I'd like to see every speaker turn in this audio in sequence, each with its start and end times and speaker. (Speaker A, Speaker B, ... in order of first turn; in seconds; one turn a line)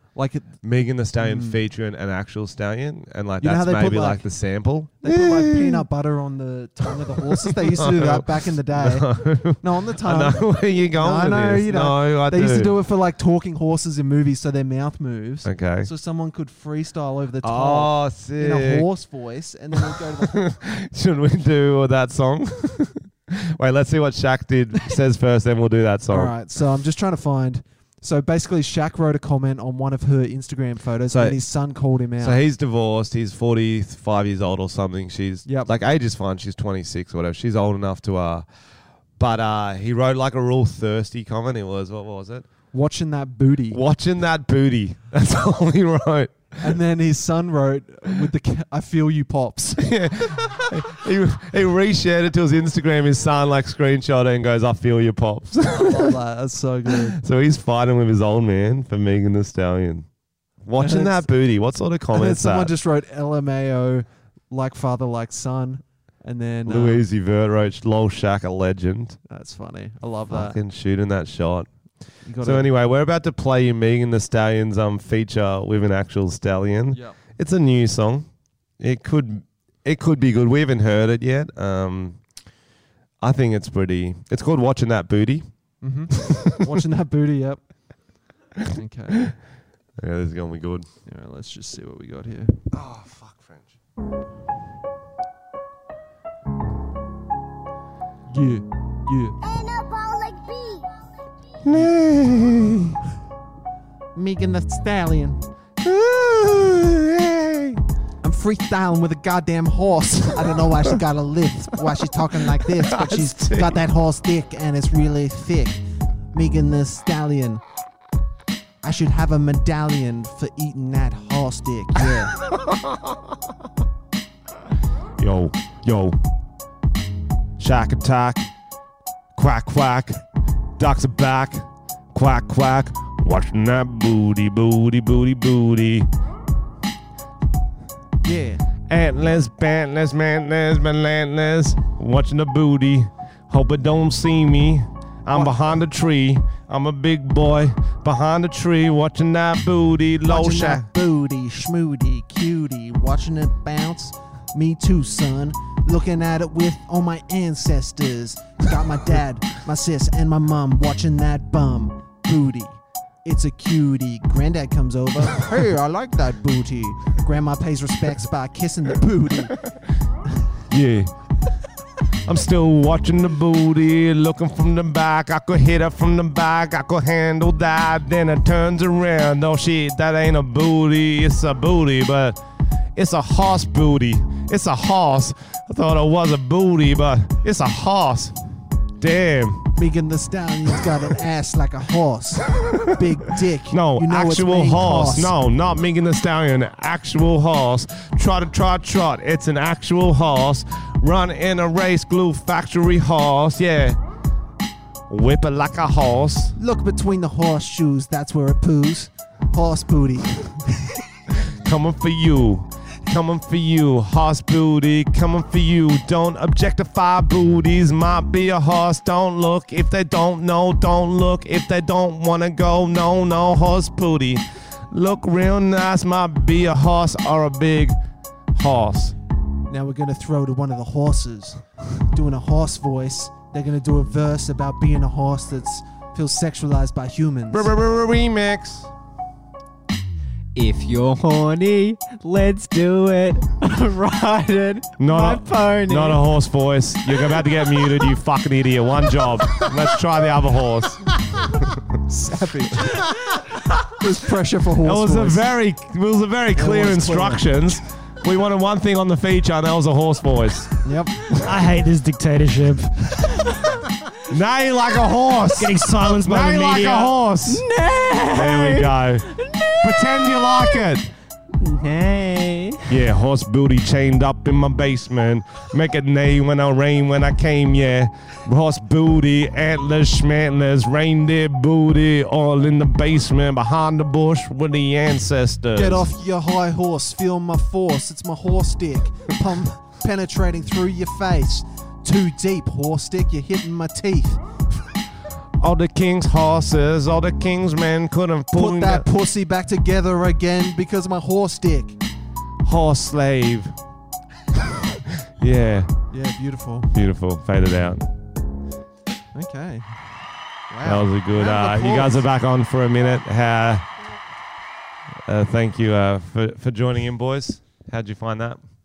Speaker A: 0.1-0.5
Speaker B: 0.6-5.9
Speaker A: 1.2-1.6
Speaker A: 3.4-4.2
Speaker A: 5.0-20.4
Speaker B: 7.4-12.7
Speaker B: 15.4-15.9
Speaker B: 17.4-18.9
Speaker B: 19.8-26.3
Speaker A: 26.1-32.4
Speaker B: 31.1-31.4
Speaker B: 32.2-38.5
Speaker A: 35.5-35.7
Speaker B: 39.2-42.5
Speaker A: 42.7-43.8
Speaker B: 43.7-46.7
Speaker A: 46.6-50.7
Speaker B: 49.8-56.2
Speaker A: 55.7-57.2
Speaker B: 56.9-60.1
Speaker B: 60.6-62.7
Speaker A: 60.8-61.2
Speaker A: 62.1-67.0
Speaker B: 66.7-69.2
Speaker A: 69.3-70.6
Speaker B: 70.3-71.7
Speaker A: 72.2-72.7
Speaker B: 72.4-78.3
Speaker A: 76.9-77.2
Speaker B: 78.8-82.2
Speaker B: 83.2-85.5
Speaker A: 85.8-87.6
Speaker B: 86.1-86.5
Speaker A: 88.6-89.3
Speaker B: 90.0-90.8
Speaker A: 91.0-92.6
Speaker B: 92.7-93.7
Speaker A: 98.3-99.4
Speaker B: 101.6-103.0
Speaker A: 104.1-105.4
Speaker B: 105.8-107.8
Speaker A: 108.2-117.6
Speaker B: 112.5-113.8
Speaker A: 118.8-122.3
Speaker B: 122.4-123.3
Speaker B: 125.2-126.2
Speaker B: 127.6-128.5
Speaker B: 129.3-130.2
Speaker B: 130.8-136.1
Speaker A: 138.2-138.6
Speaker B: 138.9-150.9
Speaker A: 145.3-145.6
Speaker A: 150.2-169.6
Speaker B: 170.7-171.1
Speaker B: 172.2-182.4
Speaker B: 182.9-188.3
Speaker B: 189.0-189.7
Speaker A: 189.8-195.3
Speaker B: 193.7-204.0
Speaker B: 205.1-206.5
Speaker A: 206.6-211.0
Speaker B: 211.4-227.9
Speaker B: 228.5-229.1
Speaker A: 229.7-237.7
Speaker B: 237.5-238.9
Speaker C: 240.5-246.2
Speaker B: 245.0-251.7
Speaker A: 252.0-253.1
Speaker A: 253.8-255.4
Speaker B: 254.8-260.7
Speaker A: 256.6-257.5
Speaker A: 260.8-261.2
Speaker D: 261.3-263.2
Speaker B: 264.3-267.6
Speaker D: 265.6-267.3
Speaker C: 267.5-270.8
Speaker B: 268.3-269.3
Speaker B: 269.8-271.1
Speaker C: 271.6-272.9
Speaker B: 272.9-286.1
Speaker A: 285.7-294.4
Speaker B: 295.6-299.1
Speaker A: 298.5-302.0
Speaker B: 302.6-303.7
Speaker B: 304.6-305.9
Speaker A: 306.1-306.9
Speaker B: 306.9-308.1
Speaker A: 309.3-309.9
Speaker A: 310.7-312.2
Speaker B: 310.8-313.9
Speaker B: 315.2-318.6